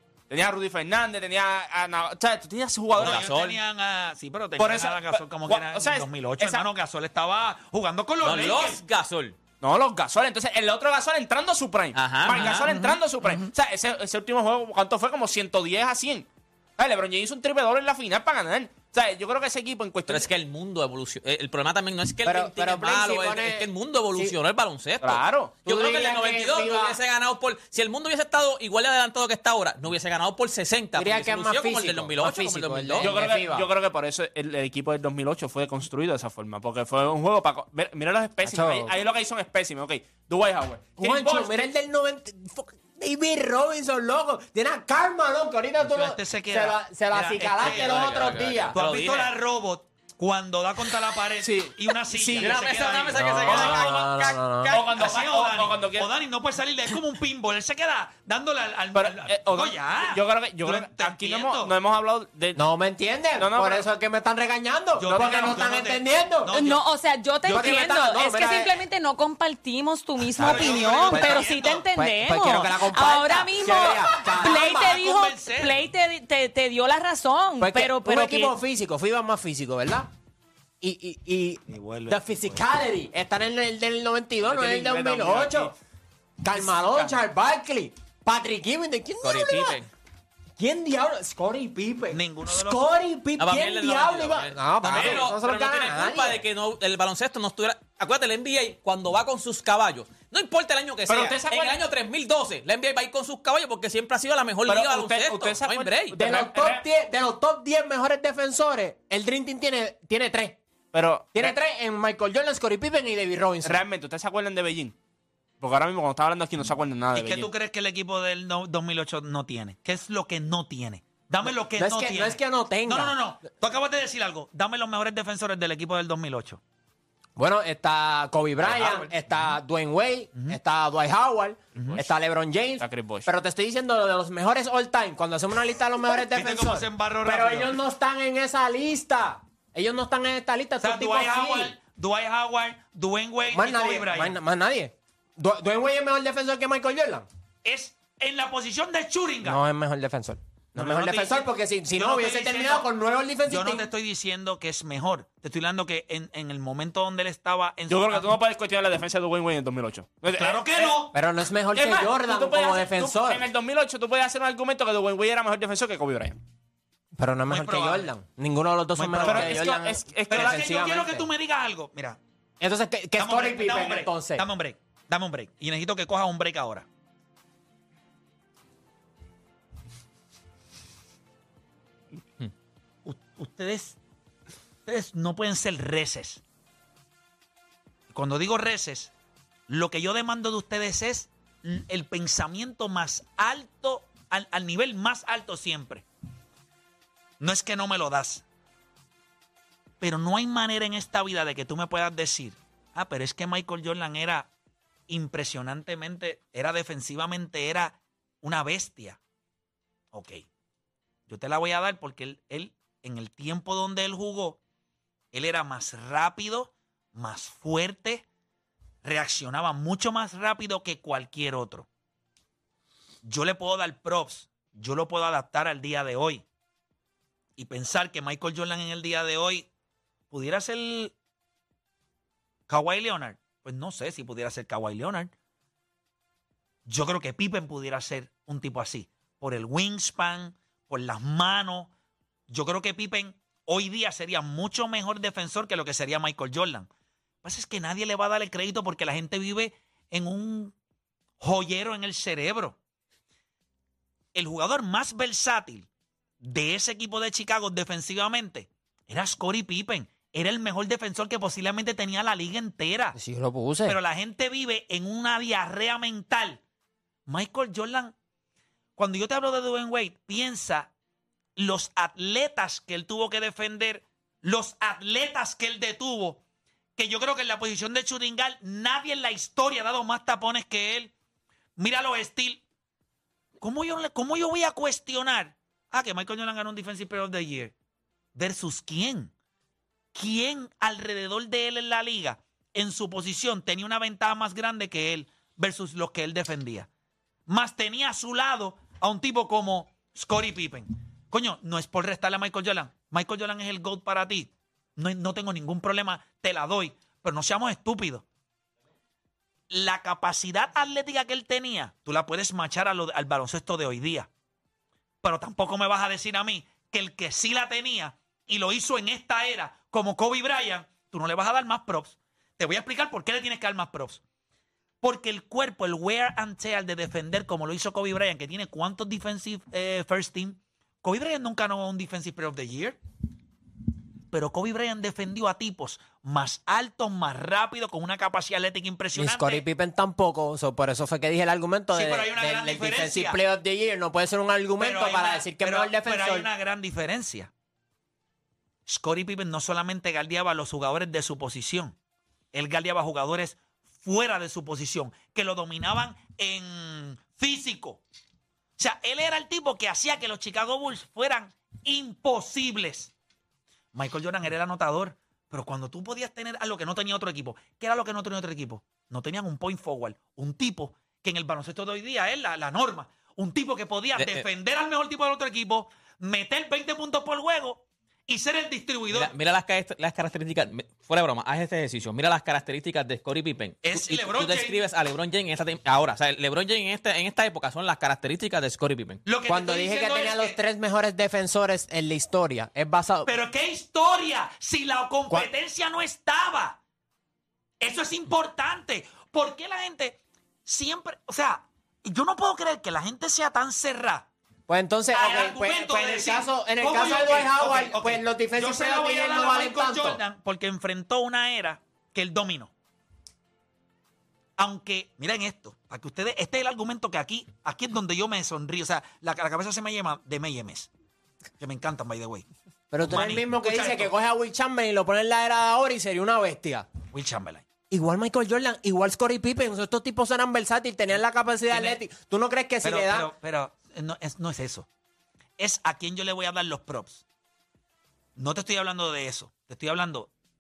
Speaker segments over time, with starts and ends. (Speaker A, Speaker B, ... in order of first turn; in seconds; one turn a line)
Speaker A: 0.3-3.2
Speaker B: 2.9-8.8
Speaker C: 3.0-3.6
Speaker A: 4.6-6.6
Speaker C: 8.2-9.4
Speaker A: 9.6-20.3
Speaker C: 11.9-12.7
Speaker D: 12.3-13.5
Speaker C: 20.1-33.1
Speaker E: 22.2-24.3
Speaker A: 25.0-25.6
Speaker E: 25.6-27.0
Speaker E: 31.0-33.6
Speaker A: 33.0-41.0
Speaker E: 38.4-39.0
Speaker E: 41.0-48.8
Speaker B: 41.0-41.7
Speaker B: 45.8-53.9
Speaker C: 47.6-49.3
Speaker A: 51.4-52.5
Speaker E: 52.1-52.5
Speaker C: 52.4-54.9
Speaker E: 53.1-54.8
Speaker A: 54.7-56.1
Speaker B: 54.9-61.8
Speaker A: 58.9-62.6
Speaker E: 62.5-66.5
Speaker A: 63.4-63.8
Speaker B: 65.0-66.8
Speaker A: 65.0-65.6
Speaker D: 66.5-78.5
Speaker B: 67.4-67.8
Speaker E: 67.5-68.8
Speaker B: 70.4-71.9
Speaker E: 70.4-75.0
Speaker B: 74.1-75.8
Speaker E: 77.6-80.1
Speaker E: 80.8-85.7
Speaker B: 81.7-82.6
Speaker A: 84.4-85.7
Speaker E: 86.4-89.8
Speaker A: 86.5-87.2
Speaker C: 89.2-89.9
Speaker E: 90.6-96.4
Speaker B: 92.1-92.9
Speaker C: 93.4-106.1
Speaker A: 94.8-95.2
Speaker A: 101.1-101.8
Speaker A: 104.7-106.8
Speaker E: 106.1-110.6
Speaker A: 110.9-111.5
Speaker E: 111.3-113.8
Speaker A: 113.6-114.9
Speaker A: 115.6-117.5
Speaker B: 117.1-126.6
Speaker E: 121.4-123.1
Speaker E: 127.4-141.7
Speaker B: 128.6-129.6
Speaker A: 132.8-133.3
Speaker B: 136.1-137.8
Speaker B: 140.8-144.4
Speaker E: 143.5-147.2
Speaker B: 147.6-149.6
Speaker E: 149.4-153.9
Speaker B: 150.8-152.9
Speaker B: 153.5-158.3
Speaker A: 157.9-161.0
Speaker B: 160.3-161.1
Speaker E: 161.1-163.4
Speaker A: 161.8-166.4
Speaker E: 167.2-171.3
Speaker B: 167.5-168.1
Speaker B: 168.9-169.6
Speaker A: 169.2-170.9
Speaker B: 170.3-172.2
Speaker E: 172.6-174.4
Speaker B: 173.2-176.9
Speaker B: 183.0-184.0
Speaker B: 184.9-186.4
Speaker B: 188.1-189.1
Speaker B: 189.7-196.0
Speaker B: 197.4-198.4
Speaker B: 200.0-204.5
Speaker B: 205.1-209.2
Speaker B: 210.1-210.4
Speaker B: 211.3-214.6
Speaker B: 215.3-218.2
Speaker B: 219.0-221.9
Speaker B: 223.2-226.4
Speaker B: 227.6-229.7
Speaker B: 230.3-231.1
Speaker B: 232.7-235.3
Speaker B: 236.9-241.9
Speaker B: 242.5-246.9
Speaker B: 247.4-250.8
Speaker B: 251.4-252.8
Speaker B: 254.3-255.9
Speaker B: 256.4-263.2
Speaker E: 263.1-264.0
Speaker B: 263.9-266.6
Speaker B: 267.3-268.1
Speaker B: 269.0-270.9
Speaker B: 271.6-276.4
Speaker B: 276.9-281.1
Speaker B: 281.8-282.6
Speaker B: 283.6-287.8
Speaker B: 288.3-289.3
Speaker B: 290.1-296.9
Speaker B: 297.5-308.2
Speaker B: 309.7-314.3
Speaker B: 315.2-324.2
Speaker B: 325.0-333.0
Speaker B: 334.3-339.6
Speaker E: 339.1-346.5
Speaker B: 341.9-343.4
Speaker B: 344.8-347.5
Speaker B: 348.9-351.9
Speaker B: 352.5-358.0
Speaker B: 358.8-363.1
Speaker B: 363.9-379.3
Speaker C: 374.2-374.4
Speaker C: 379.1-389.2
Speaker B: 383.8-384.8
Speaker B: 389.2-390.6
Speaker E: 389.5-393.3
Speaker B: 393.2-396.8
Speaker B: 397.8-404.3
Speaker E: 404.7-410.2
Speaker B: 405.1-412.7
Speaker B: 414.6-420.9
Speaker B: 421.6-422.4
Speaker E: 422.9-426.9
Speaker B: 423.0-424.1
Speaker B: 427.1-427.6
Speaker E: 427.9-433.3
Speaker B: 431.7-432.0
Speaker B: 432.8-434.9
Speaker B: 435.6-437.2
Speaker B: 438.4-440.3